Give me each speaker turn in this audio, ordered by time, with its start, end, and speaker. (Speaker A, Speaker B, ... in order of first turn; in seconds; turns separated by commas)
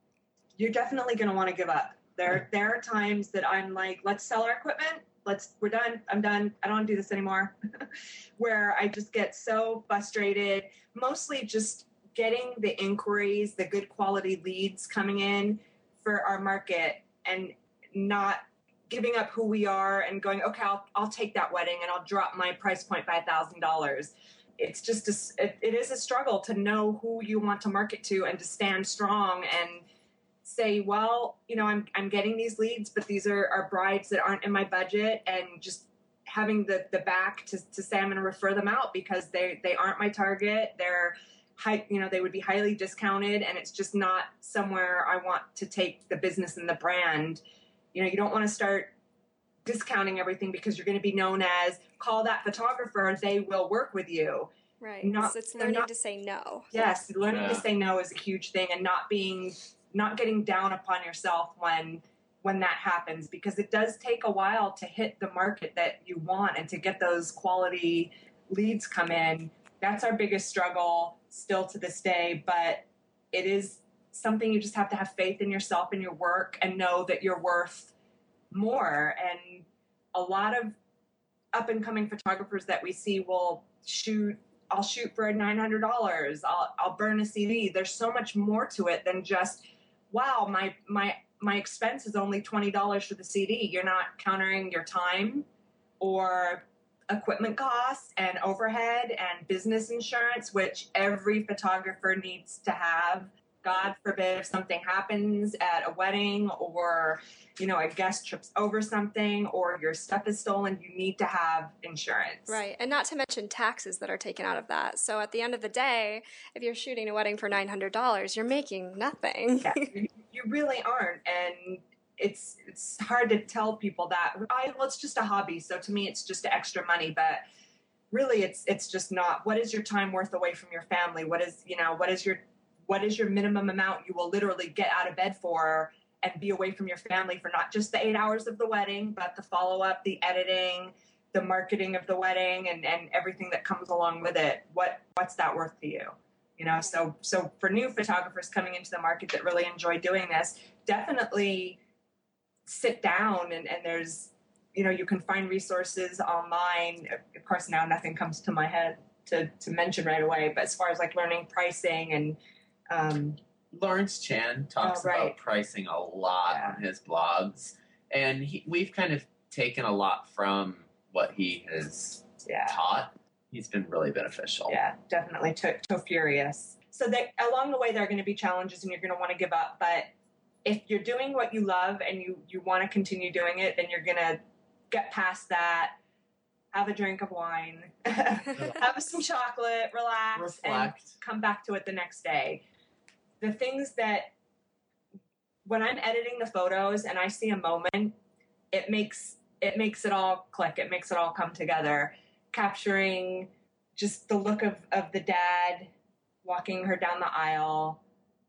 Speaker A: 0.6-7.9, Speaker A: 8.4-29.9, Speaker A: 30.4-47.4, Speaker A: 47.9-48.9, Speaker A: 49.6-54.5, Speaker B: 54.8-56.9, Speaker A: 55.0-55.9, Speaker A: 56.7-77.9, Speaker C: 57.3-57.6, Speaker A: 78.5-80.8, Speaker A: 81.5-95.5, Speaker A: 96.0-112.6, Speaker B: 112.5-119.9, Speaker A: 119.6-127.4, Speaker A: 128.1-151.8, Speaker A: 152.7-162.4, Speaker A: 162.9-163.4, Speaker C: 163.7-174.8, Speaker A: 164.8-165.4, Speaker A: 166.5-166.8, Speaker A: 172.4-172.8, Speaker A: 174.7-180.1, Speaker A: 180.7-184.4, Speaker A: 184.9-186.0, Speaker A: 186.7-192.6, Speaker C: 190.3-191.2, Speaker A: 193.4-194.3, Speaker A: 195.7-198.2, Speaker A: 198.7-205.9, Speaker A: 206.4-208.0